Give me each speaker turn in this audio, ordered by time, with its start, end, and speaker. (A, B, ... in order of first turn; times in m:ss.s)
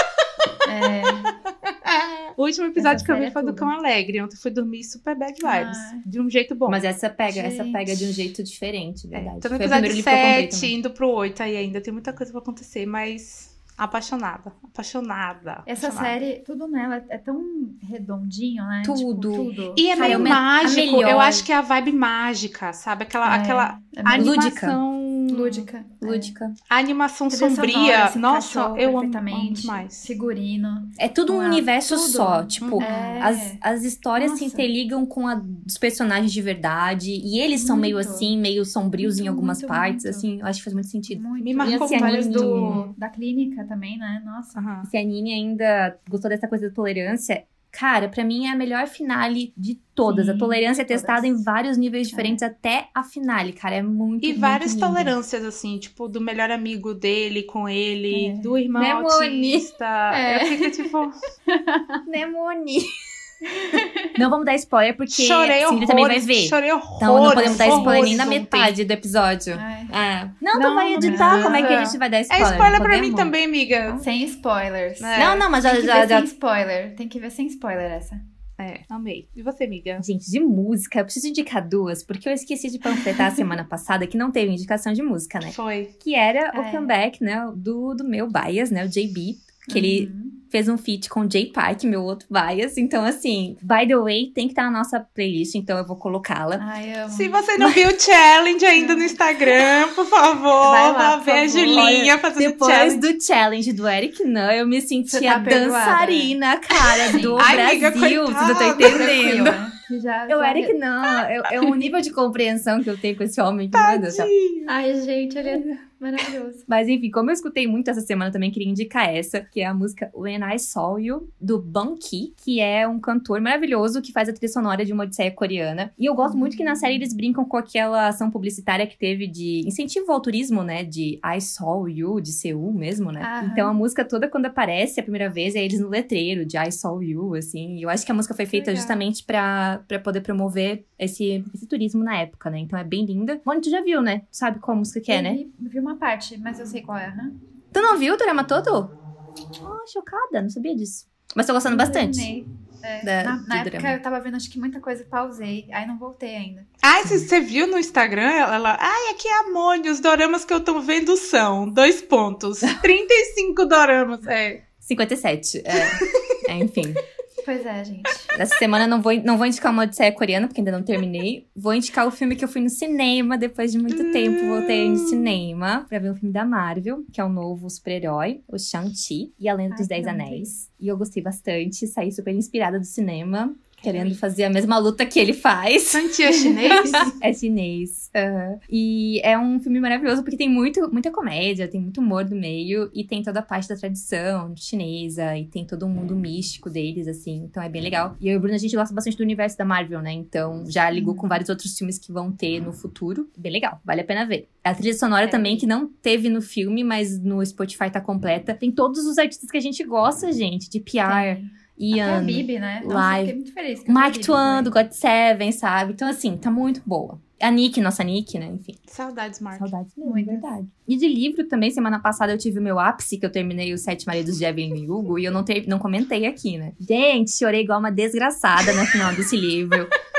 0:00.6-0:01.3 A
0:01.7-0:06.8 B
0:02.8-0:03.7 A
0:05.4-0:06.0 A
0:06.7-0:10.7 C
0:07.3-0:08.2 A
0:09.1-0:16.2 B
0:15.7-0:20.5 A
0:18.8-0:21.4 C
0:19.8-0:25.7 B
0:23.2-0:24.4 A
0:24.1-0:24.8 C
0:25.3-0:26.3 A
0:26.0-0:26.5 C
0:26.7-0:30.1 B
0:27.3-0:33.6 A
0:31.0-0:42.8 C
0:32.6-0:33.2 B
0:34.1-0:34.7 A
0:37.5-0:38.3 A
0:39.0-0:40.3 A
0:41.1-0:44.6 A
0:41.4-0:42.8 B
0:44.5-0:44.9 B
0:44.8-0:55.1 C
0:50.0-0:51.4 A
0:52.1-0:52.4 A
0:54.2-1:01.1 B
0:58.1-0:58.5 A
0:58.7-0:59.7 C
1:00.1-1:00.9 A
1:01.5-1:02.0 A
1:02.1-1:02.9 C
1:03.5-1:04.2 A
1:04.2-1:13.3 C
1:05.1-1:08.7 B
1:07.3-1:08.3 A
1:09.5-1:09.9 A
1:10.5-1:14.0 B
1:11.0-1:11.9 A
1:14.0-1:18.2 A
1:15.0-1:15.4 B
1:15.2-1:16.3 C
1:18.6-1:20.0 B
1:20.0-1:36.6 C
1:22.8-1:23.5 A
1:25.4-1:25.9 B
1:26.5-1:26.9 A
1:29.7-1:30.4 A
1:36.6-1:37.4 A
1:37.1-1:43.1 B
1:38.7-1:39.2 A
1:40.6-1:42.0 A
1:41.7-1:49.6 C
1:45.1-1:46.3 A
1:45.2-1:45.6 B
1:46.9-1:49.6 B
1:47.0-1:47.5 A
1:48.8-1:50.8 A
1:50.3-1:54.3 C
1:51.6-1:51.8 A
1:53.7-1:54.7 B
1:54.7-1:56.7 A
1:55.4-1:55.7 B
1:56.7-2:25.4 C
2:06.2-2:07.0 A
2:13.2-2:13.7 A
2:18.5-2:19.0 B
2:25.1-2:27.3 A
2:27.7-2:28.9 C
2:29.6-2:32.3 C
2:31.6-2:36.7 A
2:33.0-2:34.0 C
2:36.8-2:44.6 B
2:44.8-2:47.0 C
2:45.7-2:46.1 B
2:47.4-2:48.3 A
2:48.3-3:06.1 C
2:53.9-2:55.4 B
2:59.7-3:00.5 A
3:03.8-3:04.1 B
3:05.9-3:07.1 B
3:06.4-3:07.1 A
3:06.7-3:33.4 C
3:20.9-3:21.4 A
3:25.2-3:25.7 A
3:31.0-3:34.7 A
3:33.9-3:38.8 C
3:38.9-3:39.7 B
3:39.6-3:49.9 C
3:40.0-3:40.5 A